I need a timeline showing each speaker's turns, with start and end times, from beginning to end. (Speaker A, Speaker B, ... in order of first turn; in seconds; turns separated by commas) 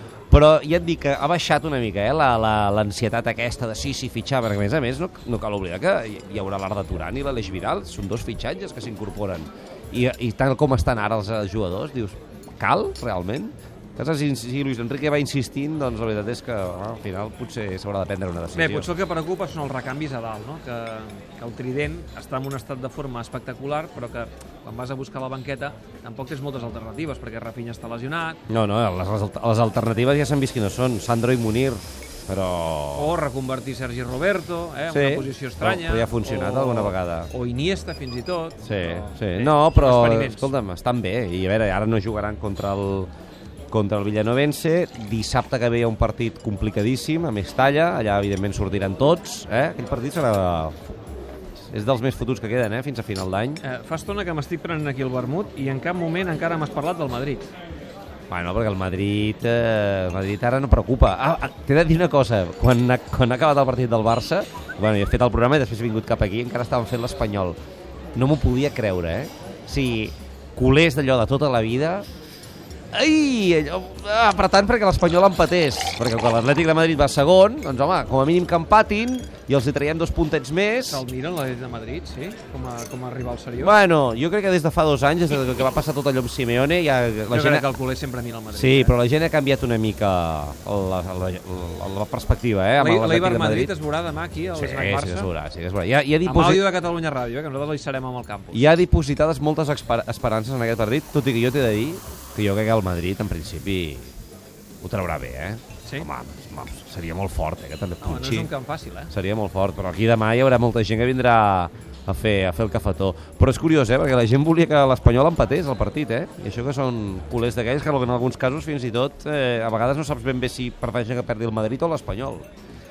Speaker A: 0.3-19.0, Speaker B: 18.5-28.4, Speaker A: 28.5-33.1, Speaker B: 32.9-40.5, Speaker A: 34.9-37.3, Speaker A: 38.6-43.1, Speaker A: 43.7-51.0, Speaker A: 51.7-53.6, Speaker B: 53.6-57.5, Speaker A: 58.3-67.6, Speaker A: 68.1-72.1, Speaker A: 72.9-81.0, Speaker B: 80.9-83.8, Speaker A: 83.6-87.7, Speaker B: 87.3-88.9, Speaker A: 88.5-93.7, Speaker B: 92.8-95.3, Speaker A: 94.5-96.7, Speaker B: 96.2-98.6, Speaker A: 98.5-104.1, Speaker A: 104.8-108.5, Speaker B: 108.0-109.1, Speaker A: 109.1-122.5